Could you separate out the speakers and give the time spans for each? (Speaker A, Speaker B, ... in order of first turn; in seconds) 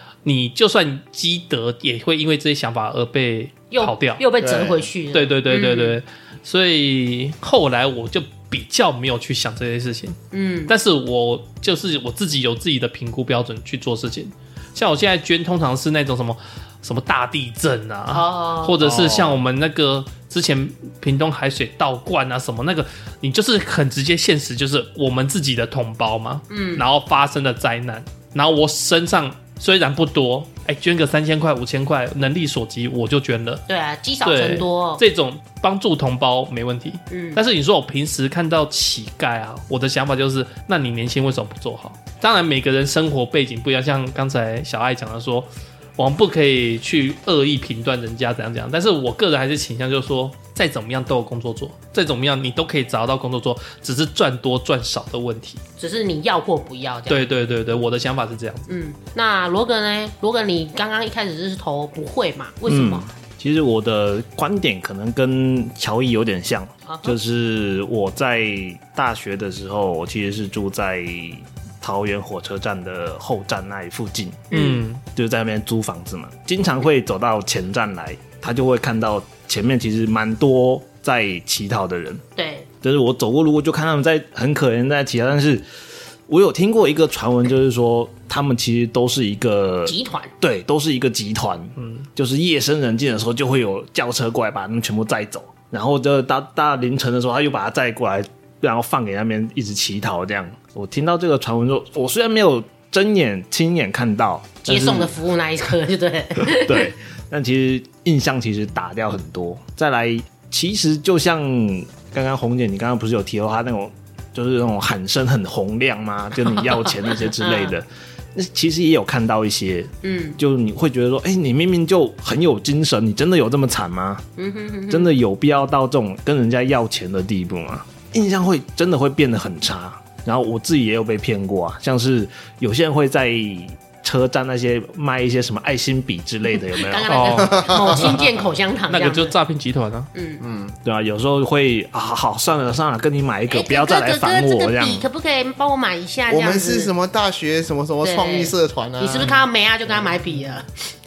Speaker A: 0.2-4.2, 5.1-10.2, 10.7-33.6, 34.2-55.6, 57.1-58.7, 74.5-75.0, 91.8-92.1, 137.1-137.6, 138.9-140.1
Speaker B: 3.7-6.0, 10.3-10.7, 18.1-18.8, 26.5-26.9, 33.7-35.0, 37.1-37.4, 55.8-57.2, 58.7-63.1, 66.9-67.2, 74.5-74.8, 82.4-82.7, 89.9-90.3, 104.7-106.9, 117.4-117.7, 120.0-120.4, 124.4-125.1, 136.8-139.3, 140.1-140.4, 143.5-146.9, 148.0-150.9
Speaker C: 4.4-4.9, 137.4-138.0, 140.4-140.8, 146.3-149.4
Speaker D: 18.8-19.4, 62.7-74.4, 75.1-82.2, 82.8-85.6, 86.3-105.1, 106.4-124.2, 124.9-137.2, 140.8-145.1